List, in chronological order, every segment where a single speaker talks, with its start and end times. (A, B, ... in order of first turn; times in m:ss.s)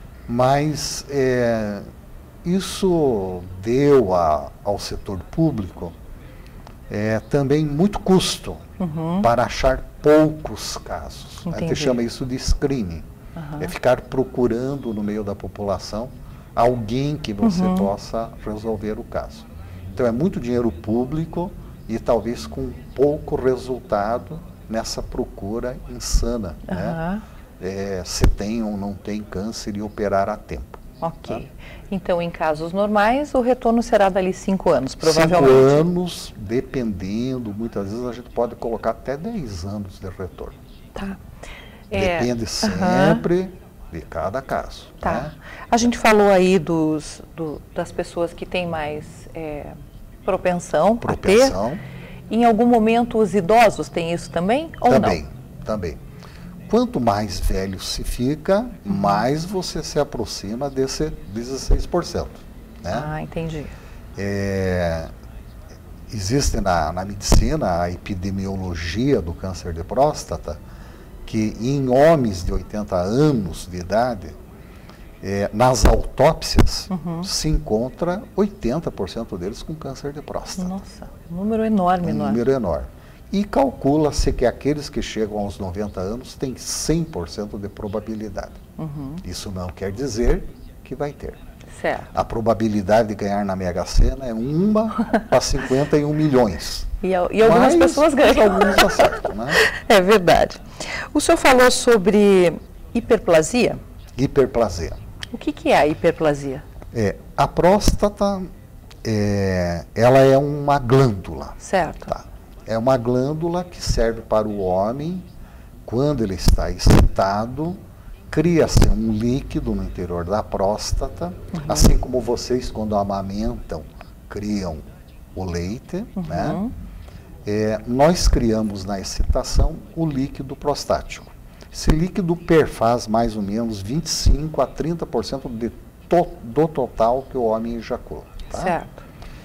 0:00.3-0:01.8 A
0:02.4-0:05.9 A
0:06.9-0:08.7 A
0:08.8-0:09.3 B
0:09.2-0:13.1 A
0:11.4-0:12.0 B
0:13.4-0:13.7 B
0:13.6-0:27.0 A
0:17.4-0:17.9 B
0:26.7-0:27.2 B
0:27.6-0:31.4 A
0:31.0-0:35.8 B
0:35.0-0:40.6 A
0:41.9-0:43.2 B
0:41.9-0:45.3 A
0:45.0-0:49.7 B
0:50.2-0:51.6 B
0:51.0-0:51.8 A
0:52.3-0:55.2 B
0:54.8-0:56.0 A
0:56.7-1:03.1 A
0:58.9-0:59.2 B
1:02.9-1:03.7 B
1:04.2-1:05.1 A
1:06.1-1:10.6 A
1:11.2-1:14.4 A
1:15.2-1:20.8 A
1:16.9-1:17.3 B
1:20.6-1:22.4 B
1:22.0-1:28.6 A
1:28.8-1:29.2 B
1:29.2-1:31.4 A
1:31.8-1:32.1 B
1:32.1-1:39.6 A
1:37.0-1:43.8 B
1:44.2-1:45.0 A
1:45.3-1:46.6 B
1:46.9-1:48.5 A
1:49.0-1:55.2 A
1:51.6-1:52.1 B
1:55.8-1:57.8 A
1:58.3-2:04.8 A
2:01.5-2:01.9 B
2:05.3-2:06.6 A
2:06.2-2:06.7 B
2:07.4-2:18.8 A
2:18.5-2:19.0 B